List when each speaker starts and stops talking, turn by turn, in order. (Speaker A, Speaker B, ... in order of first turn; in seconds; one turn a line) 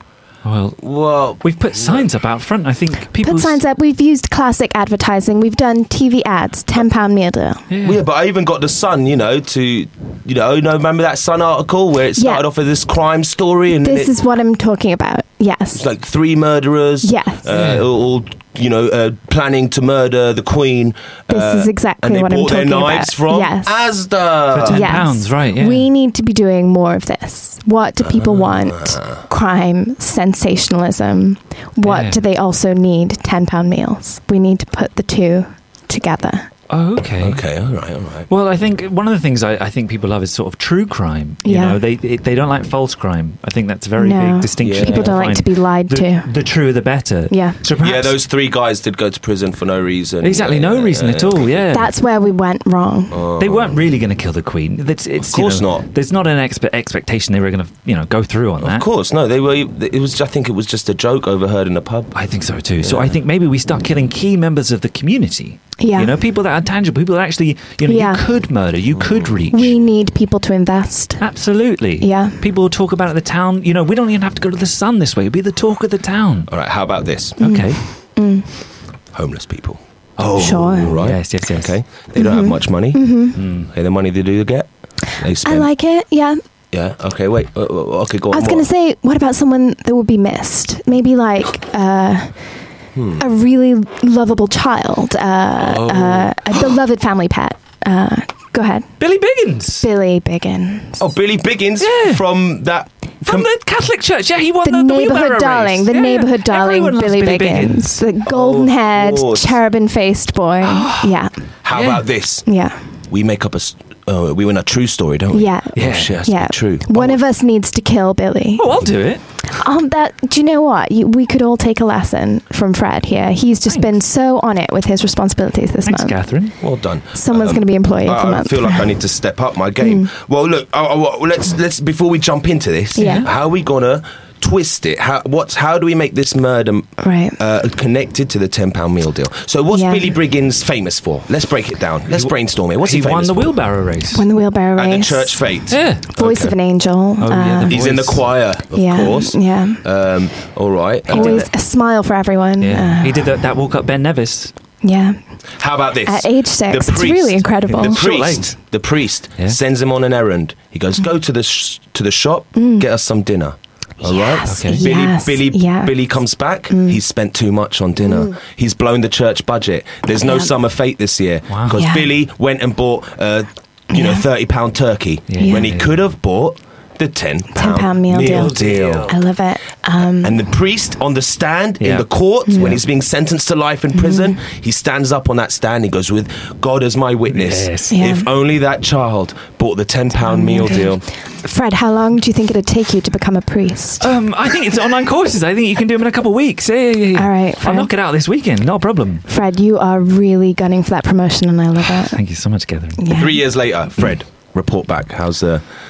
Speaker A: 0.4-3.6
Speaker B: 0.8-2.1
Speaker C: 3.2-7.6
Speaker A: 7.7-8.0
Speaker B: 7.8-14.1
Speaker C: 12.2-12.4
Speaker C: 13.8-15.8
Speaker B: 15.7-25.1
Speaker C: 17.0-17.4
Speaker A: 17.5-17.9
Speaker C: 21.3-23.8
Speaker A: 24.5-25.9
Speaker C: 24.7-36.5
Speaker B: 28.0-29.2
Speaker A: 31.8-32.2
Speaker A: 36.7-37.4
Speaker B: 37.2-38.3
Speaker A: 38.3-48.2
Speaker C: 41.4-41.8
Speaker C: 44.0-46.3
Speaker B: 44.6-45.3
Speaker C: 47.3-47.6
Speaker B: 47.8-51.5
Speaker A: 50.2-51.9
Speaker C: 51.7-53.2
Speaker B: 53.1-53.8
Speaker A: 53.4-58.9
Speaker B: 55.2-55.8
Speaker B: 58.6-62.1
Speaker A: 62.1-69.8
Speaker B: 62.8-63.2
Speaker C: 65.8-66.1
Speaker C: 67.8-68.2
Speaker B: 68.9-69.4
Speaker C: 69.5-71.2
Speaker A: 71.2-76.5
Speaker C: 72.0-72.4
Speaker B: 76.5-77.5
Speaker C: 77.4-78.5
Speaker A: 77.4-77.8
Speaker B: 79.1-79.8
Speaker A: 80.2-81.7
Speaker C: 80.3-80.9
Speaker B: 80.4-85.7
Speaker C: 82.2-83.4
Speaker A: 83.3-83.7
Speaker C: 85.4-86.4
Speaker B: 86.7-88.7
Speaker C: 88.3-92.6
Speaker B: 92.9-93.2
Speaker C: 93.2-98.9
Speaker B: 95.6-96.2
Speaker A: 99.0-99.8
Speaker C: 99.8-101.0
Speaker B: 101.0-103.5
Speaker A: 101.8-102.2
Speaker A: 103.2-108.0
Speaker C: 104.6-111.3
Speaker B: 108.2-109.6
Speaker A: 110.6-111.1
Speaker B: 111.6-112.5
Speaker A: 111.7-112.0
Speaker C: 112.4-112.8
Speaker B: 113.1-117.2
Speaker C: 115.3-118.6
Speaker A: 115.7-116.2
Speaker A: 118.6-119.2
Speaker C: 119.5-126.1
Speaker A: 123.7-124.0
Speaker A: 125.8-126.5
Speaker B: 126.6-143.5
Speaker C: 127.1-128.9
Speaker C: 129.8-130.1
Speaker C: 132.9-133.2
Speaker A: 133.0-133.3
Speaker C: 137.0-137.4
Speaker C: 139.7-140.1
Speaker A: 142.1-144.2
Speaker C: 144.1-147.8
Speaker B: 144.8-146.5
Speaker A: 145.7-146.0
Speaker A: 147.2-148.3
Speaker B: 147.7-151.5
Speaker C: 148.7-149.8
Speaker A: 151.1-151.5
Speaker C: 151.1-153.3
Speaker A: 152.6-154.5
Speaker C: 154.8-155.3
Speaker B: 155.6-179.1
Speaker C: 156.0-158.0
Speaker A: 157.7-158.7
Speaker C: 162.5-162.9
Speaker C: 164.0-166.1
Speaker A: 164.5-164.9
Speaker C: 166.7-167.0
Speaker C: 170.2-170.5
Speaker A: 171.5-171.8
Speaker C: 171.8-172.1
Speaker C: 173.9-174.2
Speaker A: 175.3-176.0
Speaker C: 175.4-175.6
Speaker C: 177.5-178.5
Speaker A: 178.1-179.2
Speaker C: 179.1-180.4
Speaker B: 180.2-191.0
Speaker A: 181.8-182.1
Speaker C: 182.5-182.8
Speaker C: 183.9-184.4
Speaker A: 187.3-187.9
Speaker C: 187.9-188.3
Speaker C: 190.2-194.1
Speaker A: 194.0-199.2
Speaker C: 197.2-197.9
Speaker C: 199.3-202.2
Speaker A: 201.9-203.0
Speaker C: 203.0-203.4
Speaker B: 203.1-205.6